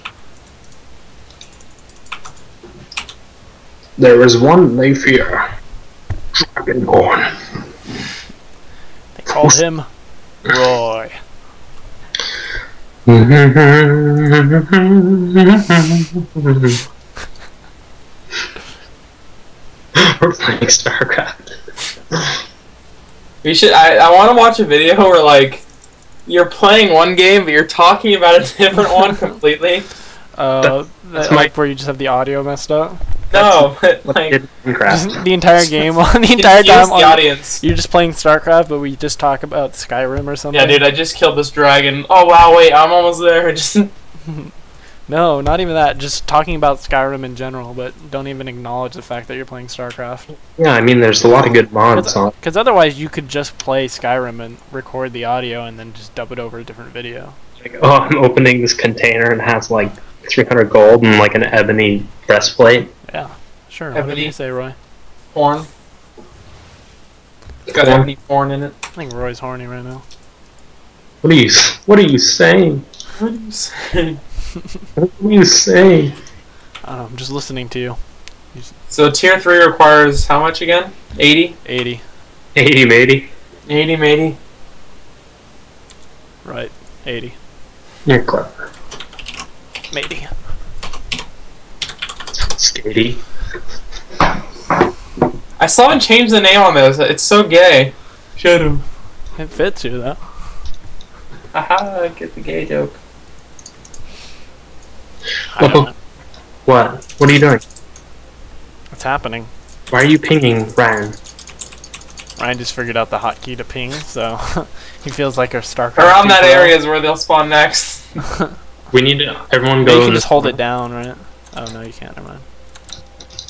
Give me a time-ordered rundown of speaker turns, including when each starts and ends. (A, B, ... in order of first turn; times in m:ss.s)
0:04.0-0:05.5 A
0:06.4-0:07.4 A
0:09.1-0:09.9 B
0:09.3-0:09.6 A
0:10.4-0:11.2 B
0:13.1-0:16.8 A
0:19.9-0:21.6 A
0:23.4-0:25.6 C
0:26.2-0:29.9 C
0:30.4-0:33.0 B
0:30.6-0:31.5 A
0:33.3-0:34.4 C
0:33.3-0:35.2 A
0:34.9-0:40.8 B
0:36.4-0:37.6 C
0:40.5-0:43.9 C
0:45.1-0:50.3 B
0:50.4-0:52.3 A
0:51.9-0:57.4 B
0:57.6-1:02.9 A
1:03.1-1:04.8 B
1:03.9-1:04.3 C
1:05.3-1:05.7 C
1:07.7-1:08.7 C
1:07.8-1:08.1 A
1:09.0-1:10.0 B
1:11.2-1:12.8 A
1:13.2-1:14.2 C
1:15.0-1:16.2 A
1:16.8-1:18.0 B
1:18.9-1:21.6 C
1:21.6-1:22.0 B
1:22.6-1:23.3 A
1:23.7-1:24.4 C
1:26.4-1:27.4 B
1:28.1-1:28.6 A
1:29.9-1:30.3 B
1:32.4-1:33.2 A
1:35.6-1:38.8 C
1:39.4-1:40.2 B
1:41.5-1:43.0 C
1:45.5-1:45.9 B
1:45.6-1:45.9 A
1:46.7-1:47.6 A
1:48.9-1:49.5 B
1:49.9-1:51.2 A
1:52.4-1:56.8 B
1:56.0-1:58.2 C
1:58.9-2:00.6 A
1:59.8-2:02.4 B